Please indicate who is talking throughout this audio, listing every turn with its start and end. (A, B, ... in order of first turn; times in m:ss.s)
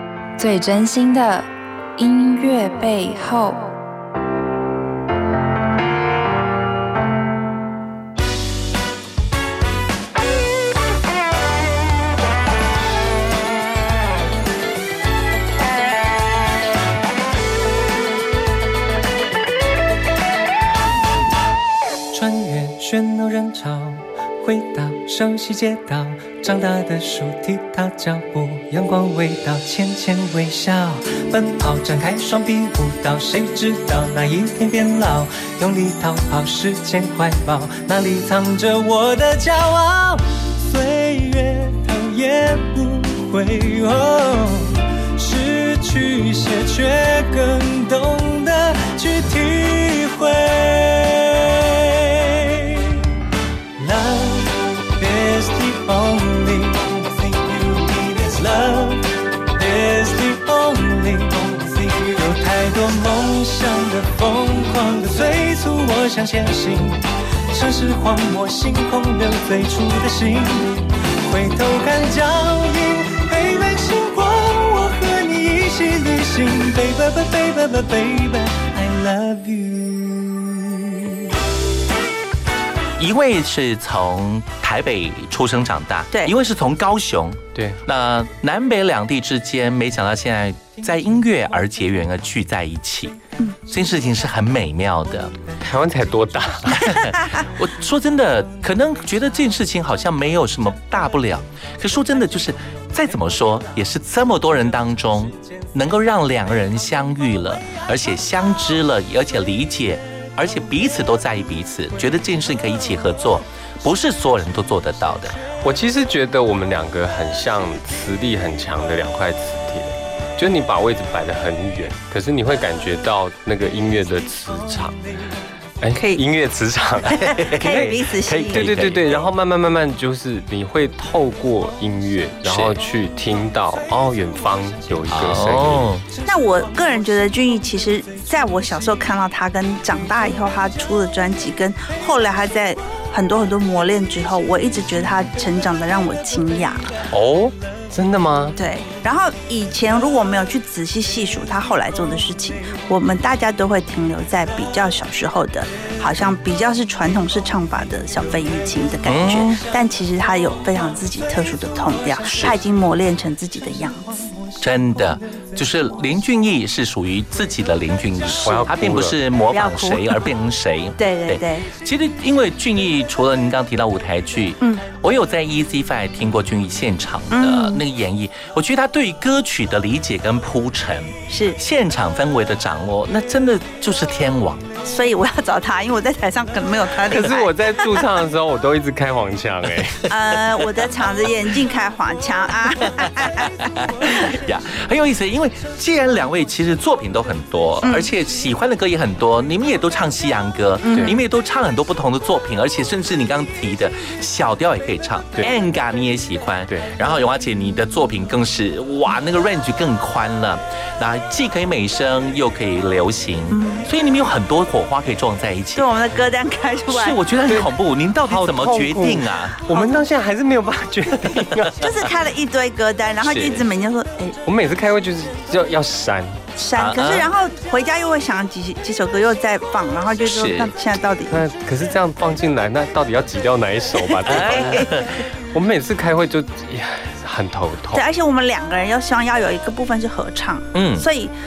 0:00.4-0:03.7 A
0:22.1-0:52.9 B
0:53.8-0:59.0 B
0:59.5-1:07.0 B
1:07.5-1:21.1 B
1:23.0-1:33.2 C
1:27.5-1:27.8 D
1:33.7-1:35.3 C
1:35.6-1:36.9 D
1:36.7-1:55.4 C
1:55.5-2:05.0 D
2:05.8-2:15.9 D
2:06.0-2:06.2 E
2:07.1-2:08.8 E
2:07.4-2:09.1 C
2:12.4-2:12.8 C
2:15.1-2:16.0 C
2:16.2-2:27.0 E
2:27.1-2:28.6 D
2:28.6-2:44.4 E
2:39.1-2:39.6 C
2:42.2-2:42.6 C
2:44.6-3:04.6 C
2:48.4-2:49.2 D
2:49.5-2:50.1 E
2:51.0-2:51.7 E
2:57.3-2:57.8 E
3:01.3-3:01.6 E
3:04.8-3:08.0 E
3:07.0-3:10.0 D
3:10.1-3:13.5 E
3:13.0-3:35.9 C
3:17.8-3:18.1 E
3:20.8-3:21.2 E
3:33.5-3:33.8 E
3:35.7-3:37.2 E
3:36.9-3:39.6 C
3:37.4-3:37.7 D
3:38.2-3:41.8 D
3:41.8-3:44.4 E
3:43.2-3:43.6 C
3:44.4-3:46.5 D
3:46.6-3:51.4 E
3:46.7-3:47.3 C
3:50.2-3:50.7 C
3:51.3-3:54.9 D
3:54.2-3:54.9 E
3:54.2-3:55.2 C
3:55.5-3:58.0 D
3:57.9-4:01.3 E
4:00.7-4:01.0 C